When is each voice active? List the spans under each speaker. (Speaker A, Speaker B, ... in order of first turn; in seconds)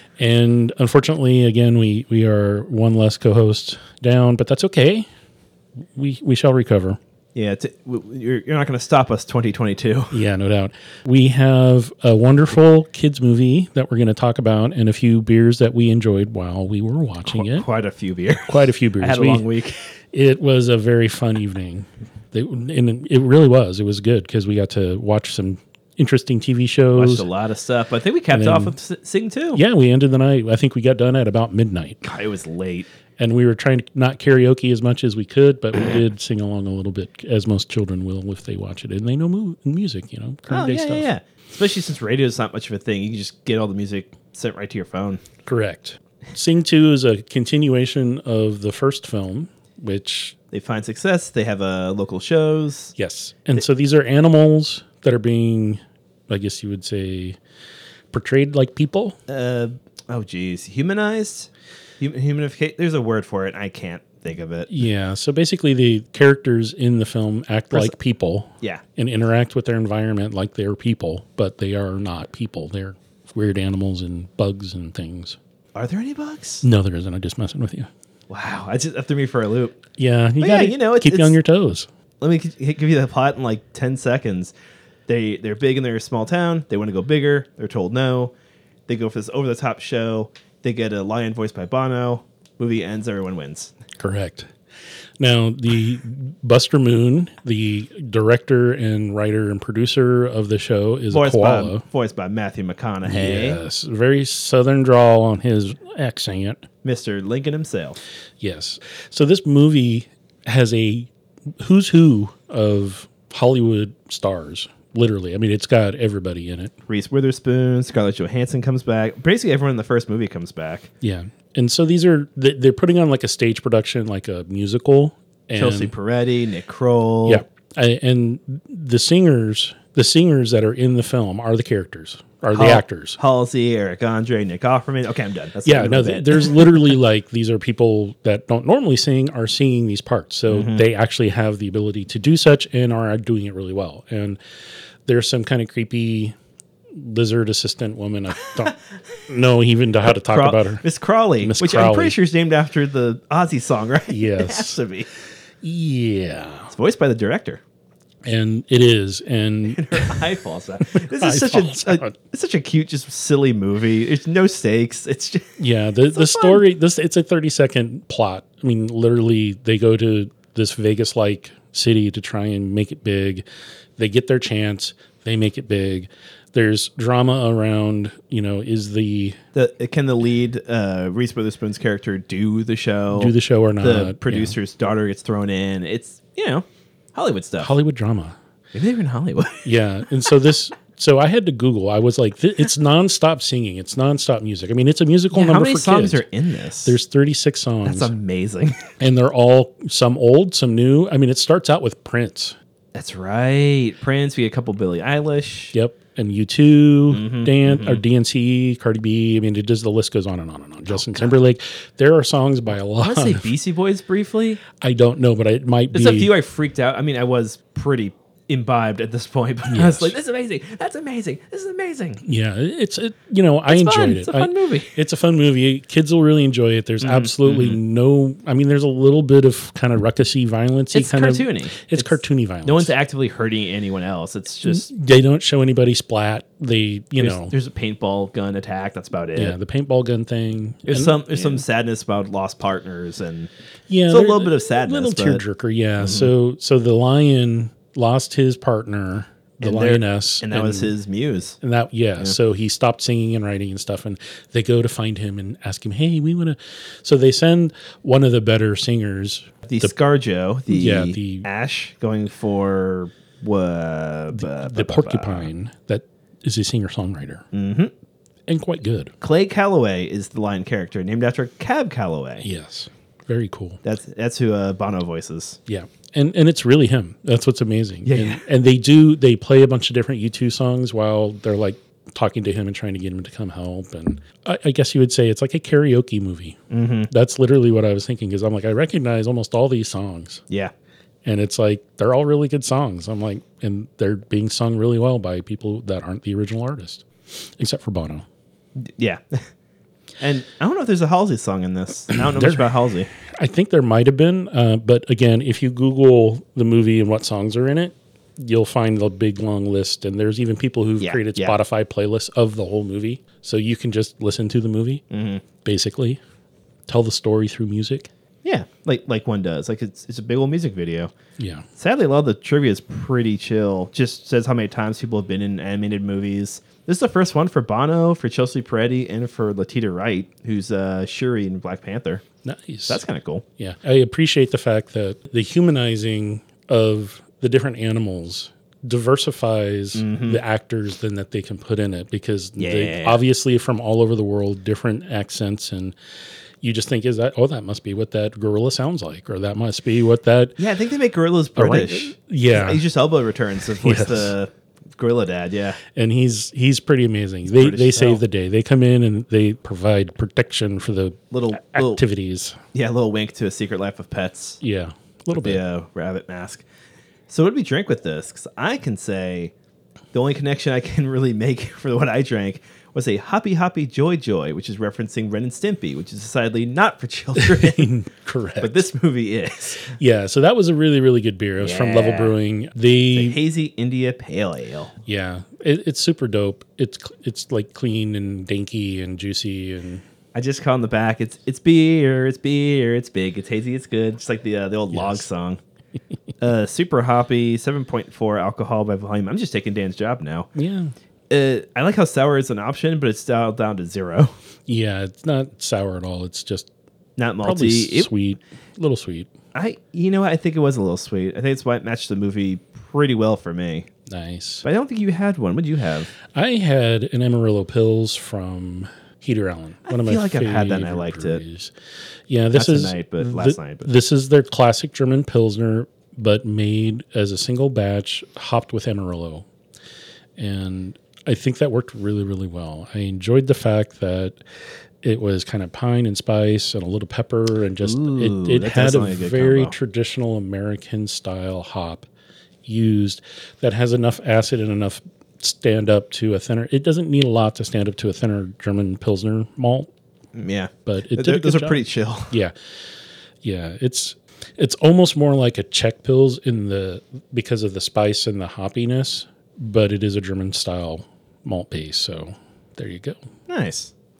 Speaker A: 0.2-5.1, 5.9-7.0, 10.1-17.6, 18.5-19.4, 20.1-27.3, 28.3-28.7, 29.5-32.0, 33.2-41.1, 45.5-50.4, 53.0-57.4, 58.1-59.2, 64.7-75.4, 76.6-77.9, 80.0-81.9, 94.0-94.5, 95.2-101.8, 103.0-106.7, 108.4-116.8, 121.0-125.9, 127.2-133.2, 135.6-144.4, 145.1-146.3, 146.9-150.8, 151.4-152.2, 154.1-154.8, 155.6-156.7, 158.2-160.2, 161.1-162.2, 165.6-173.4, 174.0-179.4, 183.1-184.6, 187.6-188.4, 189.6-196.2, 196.8-198.1, 199.0-202.6, 205.7-213.5, 214.8-216.3, 219.7-220.1, 222.2-232.9, 234.7-237.5, 239.3-241.6, 243.9-250.9, 251.6-259.9, 260.7-261.5, 264.3-267.4, 268.5-269.1, 272.4-273.8, 275.7-290.4, 291.2-298.2, 302.4-302.6, 303.4-315.0, 315.6-316.2, 316.9-318.1, 321.4-321.6, 332.4-333.0, 333.6-345.9, 346.6-350.6, 351.6-352.8, 353.8-354.3, 355.9-362.6, 364.6-365.6, 377.4-378.9, 379.9-383.4, 385.1-390.0, 394.9-395.2, 400.5-400.9, 404.7-406.7, 407.4-409.3, 414.1-414.6, 416.3-421.7, 422.3-429.4, 430.4-434.4, 435.0-442.1, 442.6-449.9, 450.8-452.5, 453.4-463.2
Speaker B: 7.3-10.2, 17.2-19.8, 26.9-29.6, 32.0-32.9, 40.5-45.2, 50.5-52.9, 59.3-61.5, 62.0-64.7, 75.7-76.6, 78.3-79.8, 80.4-81.4, 82.2-84.5, 85.1-88.3, 88.9-93.7, 101.1-103.6, 106.8-108.0, 116.9-120.9, 125.6-127.4, 132.5-137.0, 140.5-140.8, 150.3-155.1, 156.7-157.6, 159.7-165.5, 166.1-166.6, 179.5-187.7, 188.7-189.7, 195.3-197.0, 197.8-198.8, 202.9-205.7, 207.1-208.0, 210.9-211.4, 213.0-214.6, 215.9-222.2, 223.7-224.9, 227.0-227.8, 230.9-234.9, 237.2-239.6, 240.9-243.5, 244.1-245.4, 246.0-246.3, 249.6-251.6, 259.7-265.5, 267.5-267.9, 269.2-272.4, 273.8-275.6, 278.0-278.4, 286.7-287.1, 298.8-299.5, 300.2-303.1, 311.0-311.6, 315.1-315.4, 318.4-321.1, 321.8-332.2, 332.9-333.4, 339.9-340.4, 342.6-343.2, 350.6-355.8, 357.4-358.2, 361.3-362.0, 362.7-364.6, 365.3-366.6, 367.3-369.5, 370.1-377.8, 378.6-379.9, 381.6-382.4, 383.1-384.9, 390.3-395.6, 396.4-400.5, 401.3-404.3, 407.2-408.1, 409.5-413.9, 414.6-416.1, 419.9-421.4, 422.5-423.9, 437.8-439.7, 450.3-452.3, 463.5-463.9